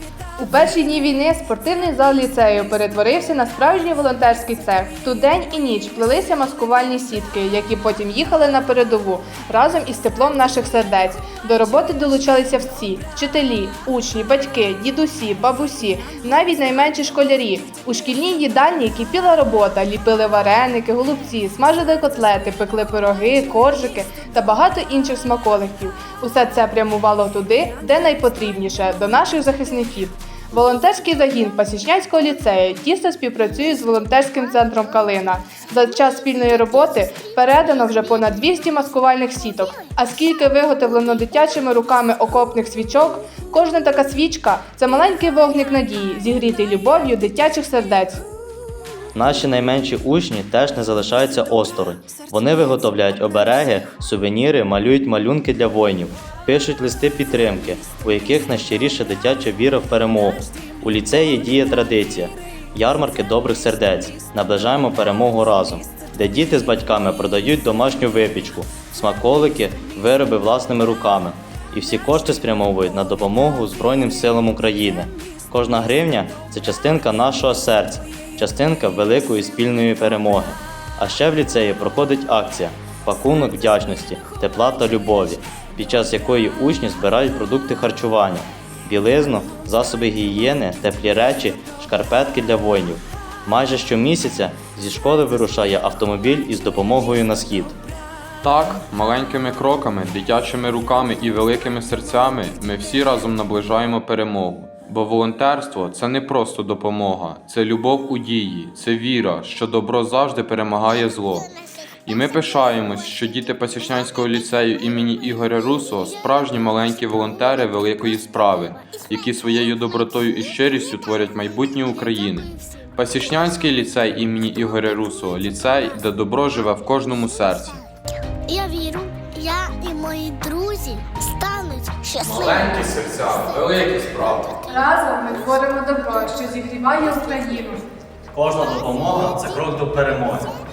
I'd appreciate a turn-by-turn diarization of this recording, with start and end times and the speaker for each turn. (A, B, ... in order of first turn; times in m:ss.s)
0:00.4-0:48.2 A
0:49.1-1:37.8 B
1:38.4-1:51.5 C
1:52.0-2:07.8 C
2:08.5-2:12.7 D
2:12.2-2:14.6 C
2:14.6-2:17.8 A
2:18.3-2:20.5 B